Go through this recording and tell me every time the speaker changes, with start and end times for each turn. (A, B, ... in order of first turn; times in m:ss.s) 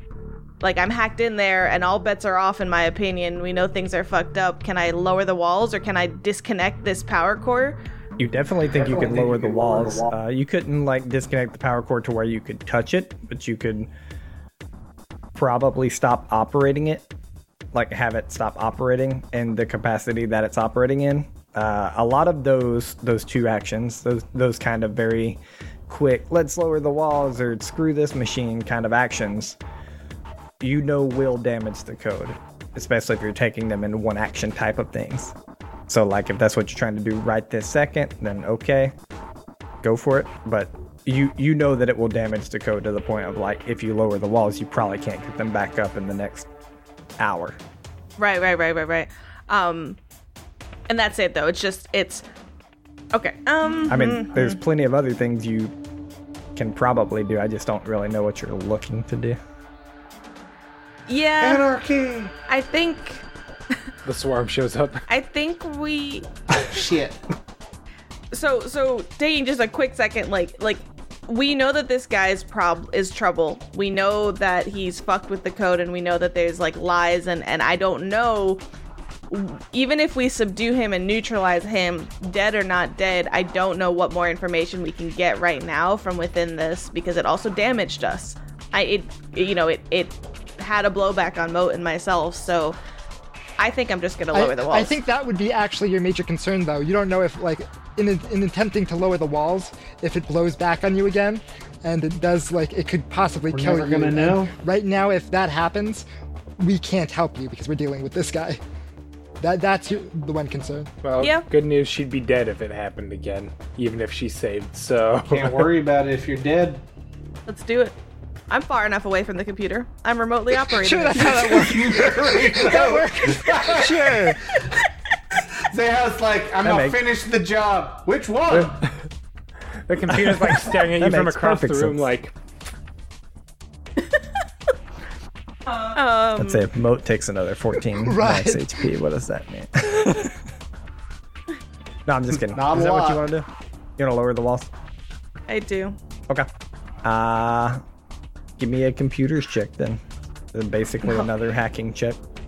0:00.6-0:07.8 A
0:08.2-0:13.9 B
0:08.8-0:10.1 C
0:15.4-0:17.1 B
0:17.7-0:29.6 B
0:30.6-0:35.4 B
0:35.9-0:38.9 B
0:39.8-0:46.5 B
0:47.2-0:47.6 B
0:48.2-0:50.0 A
0:50.9-0:52.2 A
0:53.1-0:54.6 A
0:53.9-0:55.7 B
0:56.6-0:59.4 B
1:01.1-1:01.6 A
1:01.4-1:02.3 C
1:02.5-1:03.3 A
1:04.0-1:05.0 D
1:05.1-1:06.3 A
1:06.5-1:07.2 C
1:08.3-1:18.6 A
1:19.3-1:32.8 A
1:33.6-1:35.0 A
1:34.3-1:46.0 E
1:43.5-1:44.5 C
1:46.6-1:48.6 E
1:49.4-1:50.9 E
1:51.0-1:55.7 D
1:51.2-1:51.5 A
1:55.3-1:56.8 C
1:57.5-1:58.0 A
1:58.5-2:01.6 A
2:00.6-2:04.6 E
2:01.2-2:04.6 C
2:05.7-2:08.8 C
2:06.6-2:07.0 B
2:08.5-2:09.0 D
2:09.9-2:12.3 D
2:10.9-2:12.0 B
2:15.7-2:16.6 A
2:16.4-2:20.4 B
2:18.0-2:18.7 E
2:22.1-2:24.7 B
2:22.5-2:23.2 C
2:25.5-2:26.0 A
2:27.0-2:27.8 B
2:28.6-2:30.0 B
2:30.5-2:32.2 B